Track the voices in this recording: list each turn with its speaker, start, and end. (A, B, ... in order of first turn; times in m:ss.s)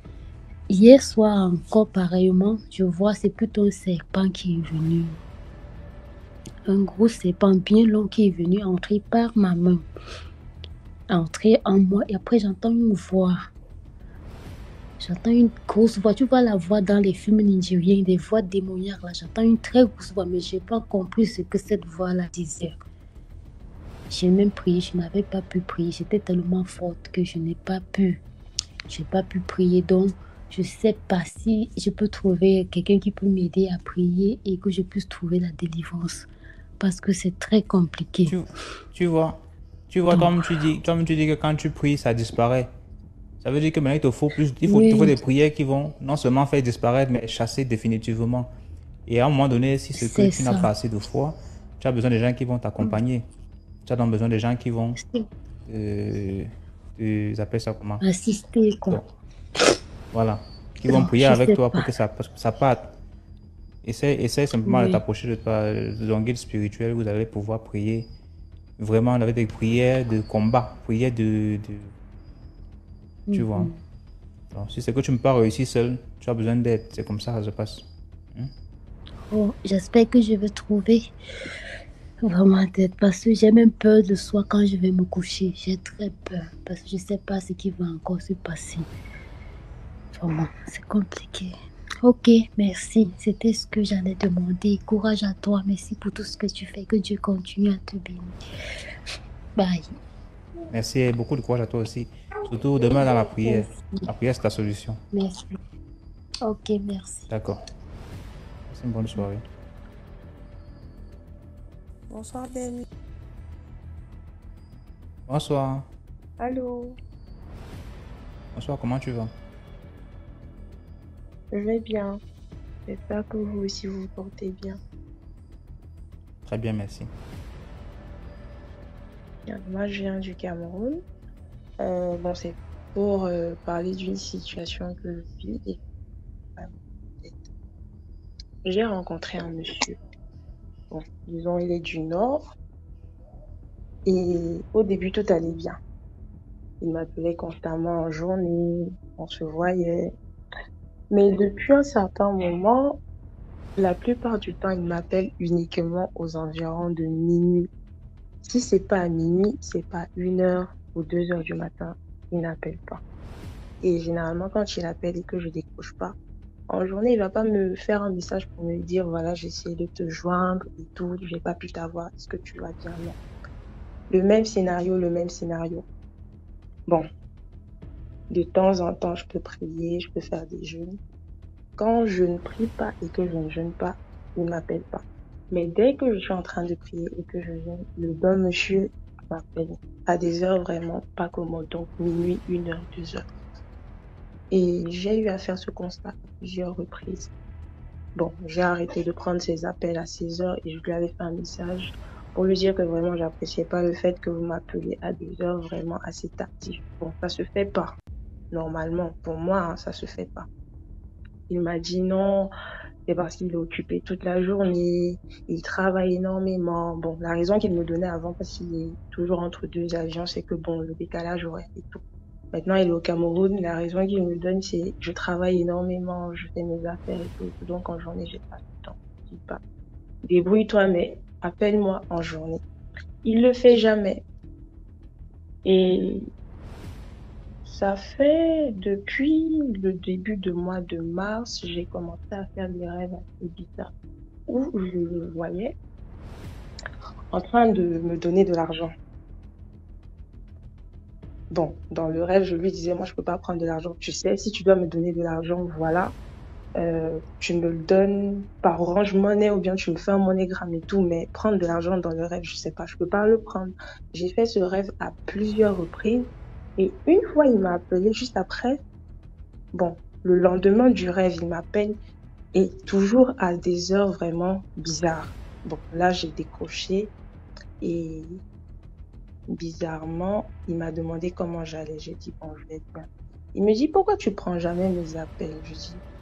0:00.7-0:05.2 A
0:06.7-0:09.8 A
0:11.1-0:13.5 A
0:15.0-0:22.8 A
0:24.1-0:28.2 A
0:28.9-0:36.3 A
0:36.8-0:38.4 A
0:38.3-0:42.7 B
0:40.1-0:40.4 A
0:43.4-0:48.5 B
0:44.7-0:45.2 A
0:49.1-0:53.2 B
0:50.0-0:50.7 A
0:53.9-0:55.0 B
0:55.0-0:55.3 A
0:55.7-0:58.0 B
0:58.0-0:59.0 A
1:00.1-1:02.9 B
1:00.9-1:01.9 A
1:03.8-1:08.1 B
1:04.6-1:05.0 A
1:08.8-1:11.9 B
1:13.3-1:13.8 A
1:13.3-1:13.7 B
1:14.5-1:18.5 B
1:19.3-1:21.1 A
1:22.3-1:28.9 A
1:30.2-1:31.5 A
1:32.0-1:38.3 A
1:39.6-1:39.8 A
1:40.7-1:45.0 B
1:43.4-1:43.7 A
1:45.1-1:45.6 A
1:46.4-1:47.3 A
1:47.3-1:47.6 B
1:48.7-1:49.4 B
1:52.1-1:52.8 C
1:55.3-1:55.9 B
1:56.4-1:57.0 C
1:58.5-1:59.3 B
2:01.5-2:02.2 C
2:02.9-2:04.8 C
2:06.4-2:07.1 B
2:09.5-2:11.0 C
2:11.8-2:15.8 C
2:16.6-2:17.4 C
2:18.6-2:20.0 C
2:20.9-2:22.5 C
2:24.0-2:25.8 C
2:26.8-2:30.1 C
2:31.1-2:33.0 C
2:33.8-2:37.7 C
2:38.4-2:43.0 C
2:43.8-2:46.2 C
2:46.7-2:53.2 C
2:54.1-2:55.9 C
2:58.3-3:01.0 C
3:01.8-3:13.2 C
3:14.5-3:17.3 C
3:18.2-3:28.0 C
3:28.5-3:30.5 C
3:31.5-3:32.5 C
3:33.1-3:49.6 C
3:50.2-3:52.6 C
3:53.2-3:54.2 C
3:55.6-3:56.3 C
3:57.6-4:03.9 C
4:04.5-4:05.8 C
4:07.3-4:08.9 C
4:11.5-4:16.1 C
4:16.8-4:28.8 C
4:29.7-4:32.0 C
4:32.5-4:37.1 C
4:37.8-4:38.4 C
4:39.5-4:46.0 C